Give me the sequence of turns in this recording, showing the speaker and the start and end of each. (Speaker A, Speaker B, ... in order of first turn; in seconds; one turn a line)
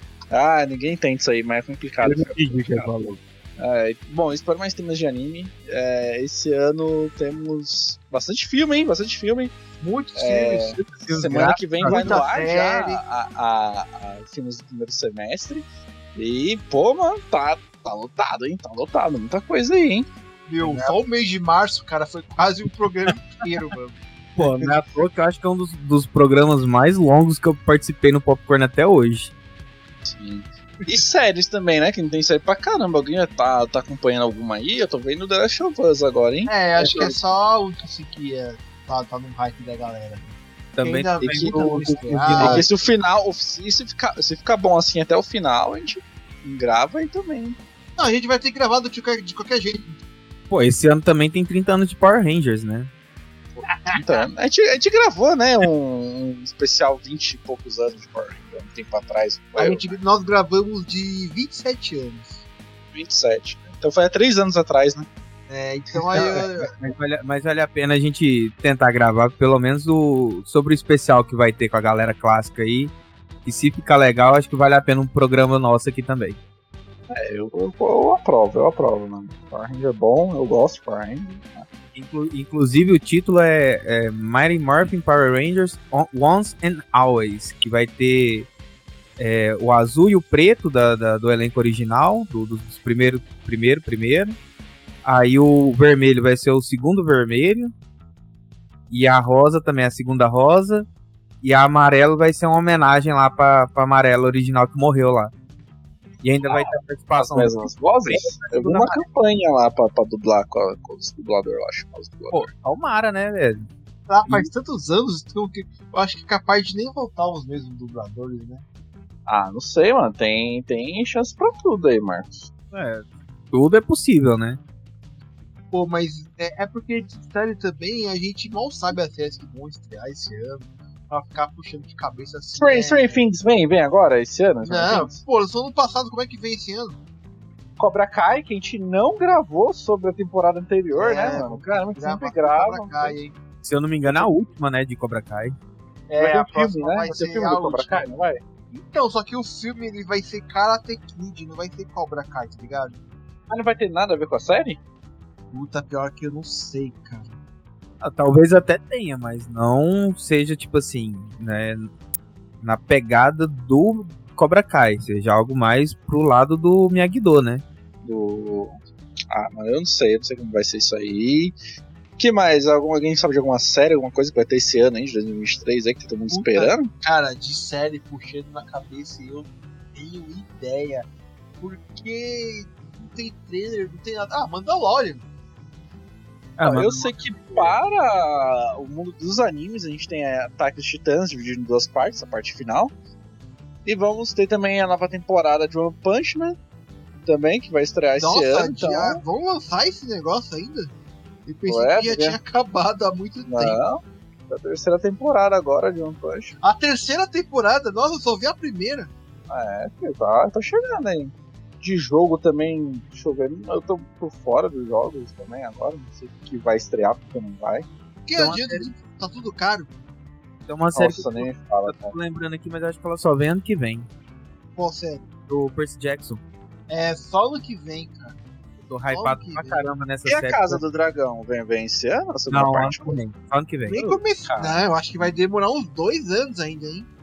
Speaker A: 0.3-2.9
Speaker B: 2.0-3.2
Speaker A: 3.6-9.5
Speaker C: 9.8-10.8
Speaker A: 10.2-20.1
Speaker B: 10.8-12.2
Speaker C: 11.8-13.0
Speaker C: 20.5-24.7
Speaker B: 24.4-29.3
Speaker A: 30.1-37.2
Speaker C: 36.5-42.7
Speaker B: 40.7-42.7
Speaker A: 41.2-41.7
Speaker A: 42.4-47.6
Speaker C: 48.0-50.0
Speaker B: 50.5-52.9
Speaker A: 53.5-60.0
Speaker C: 53.6-54.3
Speaker C: 59.5-62.4
Speaker A: 62.9-65.1
Speaker C: 65.5-66.7
Speaker B: 66.1-72.9
Speaker B: 73.4-76.4
Speaker A: 77.1-81.6
Speaker B: 81.9-88.5
Speaker B: 89.2-94.3
Speaker B: 95.0-97.7
Speaker B: 98.9-100.9
Speaker B: 101.4-105.3
Speaker B: 106.2-109.0
Speaker A: 106.4-112.5
Speaker B: 112.3-113.7
Speaker C: 114.1-118.6
Speaker B: 114.2-114.5
Speaker A: 119.3-122.5
Speaker B: 122.7-124.6
Speaker C: 125.7-133.2
Speaker A: 132.5-135.2
Speaker C: 134.6-137.0
Speaker A: 137.8-143.2
Speaker C: 140.9-143.3
Speaker B: 143.6-145.5
Speaker C: 146.1-148.2
Speaker A: 146.2-148.4
Speaker C: 148.7-153.0
Speaker A: 153.5-154.8
Speaker C: 155.5-157.3
Speaker B: 158.0-161.9
Speaker B: 162.6-167.6
Speaker A: 168.0-168.8
Speaker A: 169.3-171.6
Speaker A: 172.2-176.9
Speaker C: 176.3-181.1
Speaker C: 181.6-185.2
Speaker B: 186.6-187.7
Speaker A: 186.6-192.9
Speaker A: 193.8-196.6
Speaker A: 197.2-199.2
Speaker C: 198.2-200.9
Speaker C: 201.4-203.8
Speaker A: 201.7-202.4
Speaker A: 203.4-206.6
Speaker C: 206.6-209.1
Speaker A: 209.5-217.9
Speaker C: 218.2-219.9
Speaker B: 218.3-218.9
Speaker B: 220.7-224.1
Speaker A: 220.9-222.1
Speaker C: 224.7-225.3
Speaker B: 225.5-226.4
Speaker C: 226.9-228.4
Speaker B: 228.8-230.8
Speaker C: 229.1-229.9
Speaker A: 230.2-233.2
Speaker B: 232.5-234.1
Speaker C: 233.9-237.1
Speaker A: 234.0-234.8